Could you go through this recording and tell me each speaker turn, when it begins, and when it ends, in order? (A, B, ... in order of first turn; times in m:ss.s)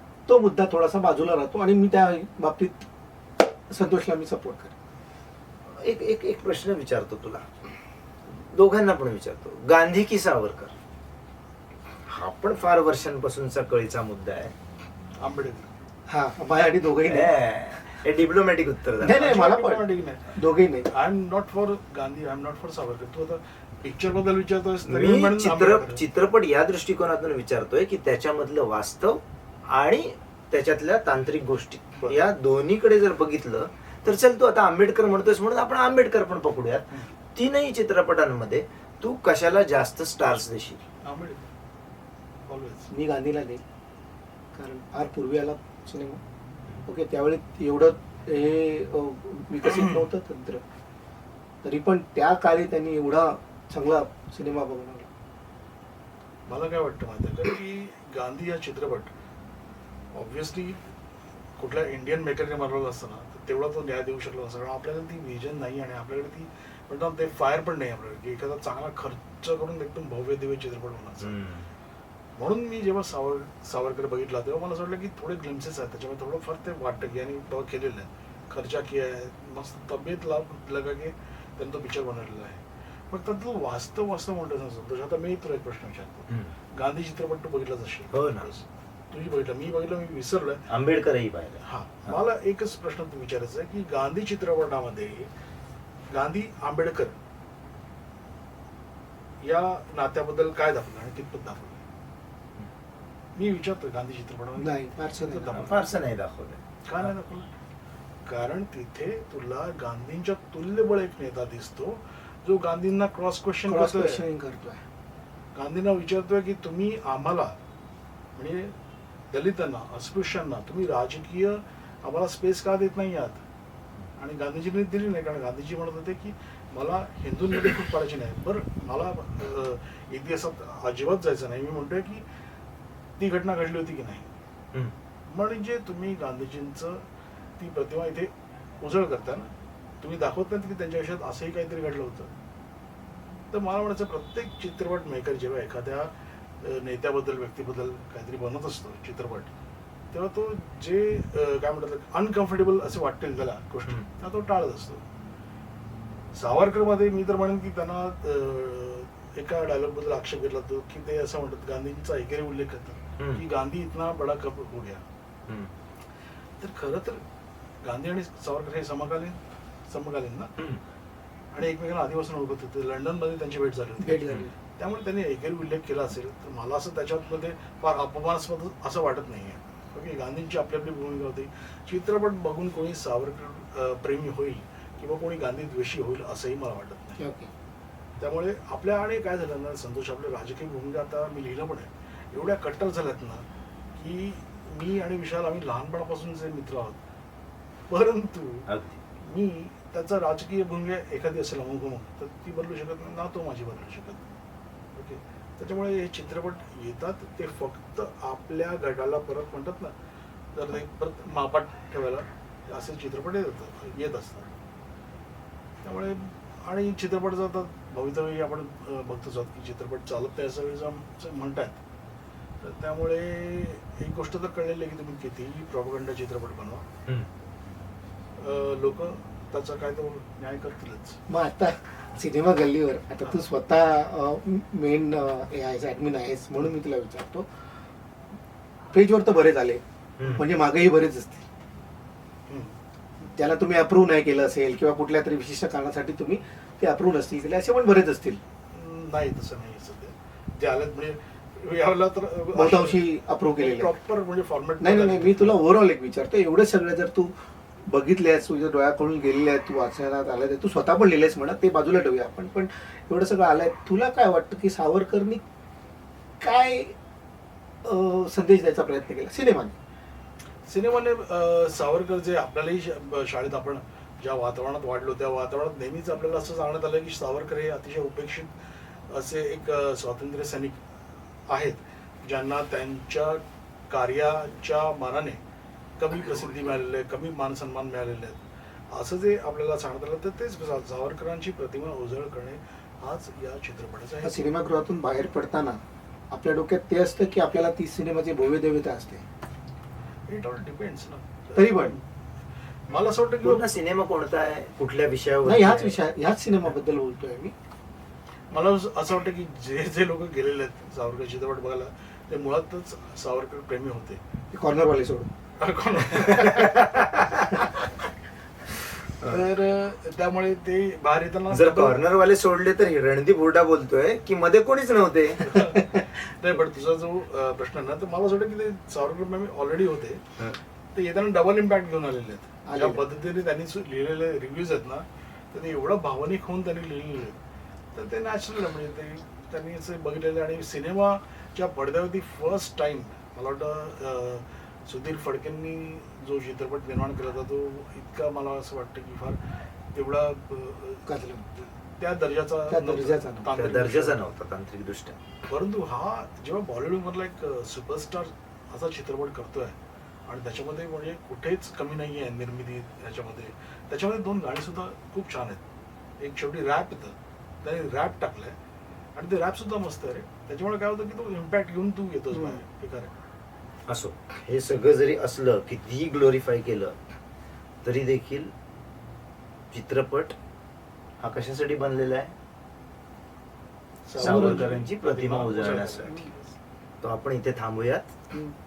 0:00.3-0:02.9 A
0:03.7-0:04.7 A
0:05.8-0:07.4 B
0:08.3-0:10.8 B
0:12.1-0:14.5 B
0:15.2-0:15.7 C
0:16.1-0:17.4 A
0:17.0-0:19.3 B
0:19.0-0:20.9 A
0:19.0-0:26.0 C
0:24.8-0:36.8 B
0:37.4-0:40.8 B
0:41.0-0:41.5 C
0:42.5-0:42.9 C
0:42.9-0:43.6 A
0:44.5-0:46.2 A
0:46.9-0:50.6 A
0:49.8-0:50.0 C
0:51.6-0:55.1 A
0:56.5-0:59.1 C
1:00.2-1:00.8 C
1:01.6-1:11.4 C
1:11.2-1:11.7 B
1:12.4-1:30.6 C
1:28.1-1:28.5 B
1:30.7-1:32.2 B
1:31.6-1:35.3 C
1:36.1-1:37.2 C
1:39.4-1:41.8 C
1:43.4-1:45.9 C
1:44.6-1:45.8 A
1:45.5-1:46.6 B
1:46.9-1:47.5 C
1:48.3-1:54.2 C
1:53.7-1:54.8 A
1:55.6-1:57.5 C
1:58.4-1:58.7 C
1:59.3-2:03.4 C
2:04.2-2:12.2 C
2:13.2-2:14.3 C
2:15.3-2:17.0 C
2:17.6-2:19.5 C
2:20.0-2:22.3 C
2:23.5-2:26.1 C
2:26.6-2:29.5 C
2:30.1-2:35.0 C
2:36.3-2:45.0 C
2:43.2-2:43.4 B
2:46.6-2:47.2 C
2:47.8-2:50.6 C
2:51.5-3:07.2 C
2:54.0-2:54.5 A
3:07.2-3:07.5 A
3:08.2-3:13.4 C
3:14.0-3:17.0 C
3:17.9-3:18.7 C
3:18.7-3:19.0 B
3:19.2-3:24.2 C
3:25.0-3:29.9 C
3:30.6-3:34.5 C
3:35.8-3:41.8 C
3:42.6-3:46.8 C
3:48.4-3:51.2 C
3:51.3-3:57.5 A
3:58.9-4:01.4 A
4:00.2-4:00.5 B
4:02.5-4:02.8 C
4:03.4-4:08.4 A
4:08.7-4:15.6 C
4:12.5-4:14.0 A
4:14.8-4:17.3 A
4:17.9-4:25.4 A
4:26.4-4:27.0 A
4:27.8-4:29.8 A
4:30.7-4:38.5 C
4:39.1-4:40.8 C
4:41.5-4:45.4 C
4:46.0-4:48.4 C
4:46.3-4:46.7 A
4:48.9-4:54.5 C
4:54.2-4:55.8 A
4:56.3-4:59.2 A
5:00.3-5:02.0 C
5:01.6-5:02.0 A
5:02.9-5:03.7 C
5:03.4-5:06.0 B
5:05.4-5:07.5 A
5:08.5-5:14.2 C
5:14.5-5:15.3 A
5:15.6-5:17.0 C
5:16.2-5:17.6 B
5:19.2-5:22.0 C
5:21.5-5:25.6 B
5:25.4-5:30.2 C
5:31.0-5:37.4 C
5:32.7-5:33.0 A
5:37.9-5:49.4 C
5:49.9-5:51.1 C
5:51.1-5:51.5 A
5:51.9-5:54.2 C
5:52.7-5:53.5 A
5:53.5-5:55.2 B
5:55.5-5:59.8 C
6:00.3-6:05.6 C
6:06.2-6:08.6 C
6:09.2-6:13.1 C
6:12.3-6:12.6 A
6:13.9-6:17.0 B
6:17.8-6:18.5 B
6:19.7-6:20.4 B
6:21.2-6:22.4 B
6:24.1-6:26.5 C
6:24.2-6:26.2 B
6:24.2-6:24.7 A
6:27.0-6:28.1 B